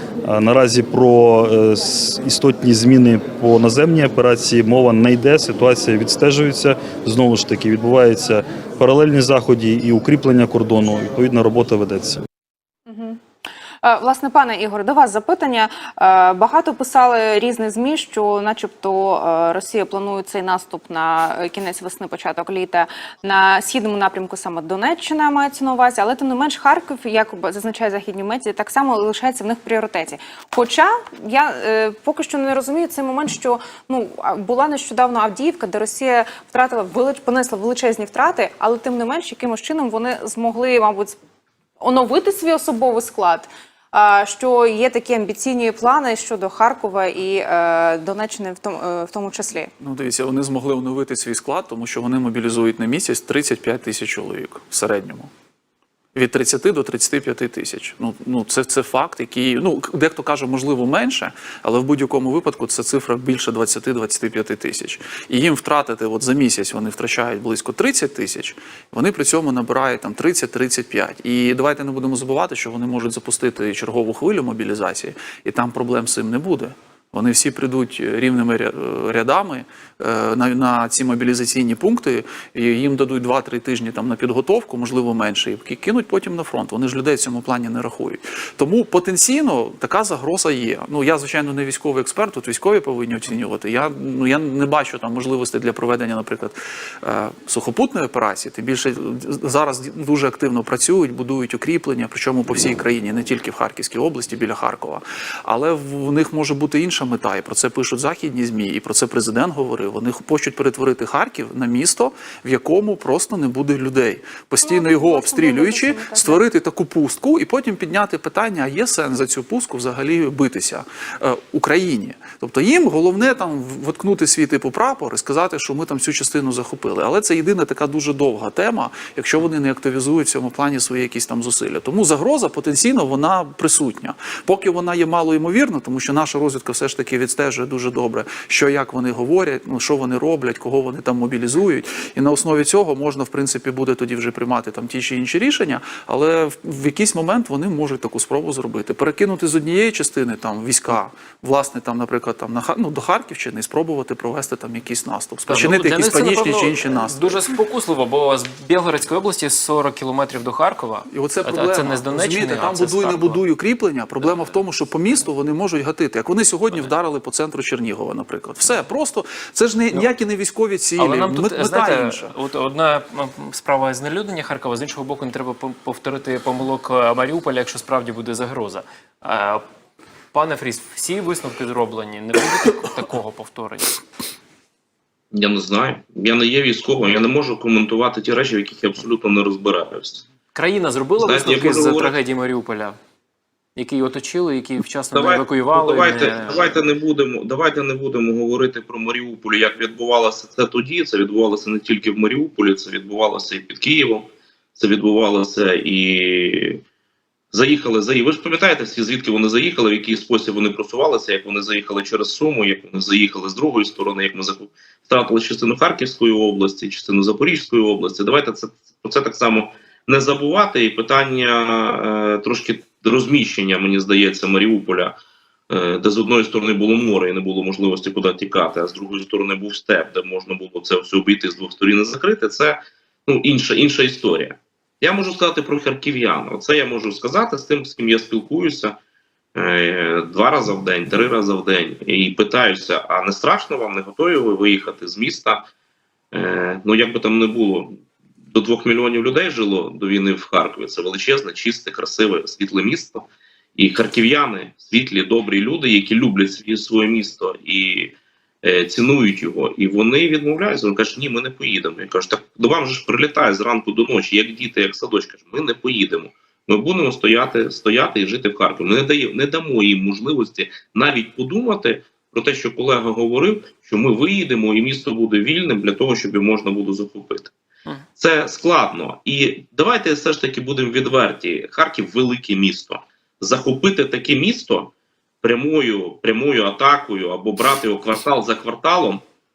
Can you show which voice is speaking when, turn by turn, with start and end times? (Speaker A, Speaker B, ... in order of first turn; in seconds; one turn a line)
Speaker A: 0.3-12.2
Speaker B: 12.9-13.2
Speaker B: 13.8-41.2
Speaker B: 41.8-49.7
Speaker C: 49.8-55.3
Speaker C: 56.1-157.4
Speaker B: 114.6-116.4
Speaker D: 155.5-163.4
Speaker C: 161.1-172.3
Speaker D: 171.0-179.6
Speaker D: 180.3-184.0
Speaker E: 185.3-190.2
Speaker D: 190.5-193.0
Speaker E: 191.2-192.1
Speaker D: 193.8-196.7
Speaker E: 195.1-206.8
Speaker E: 207.5-225.2
Speaker E: 225.7-239.0
Speaker E: 239.5-245.6
Speaker E: 246.3-277.5
Speaker E: 278.2-284.9
Speaker E: 285.4-289.2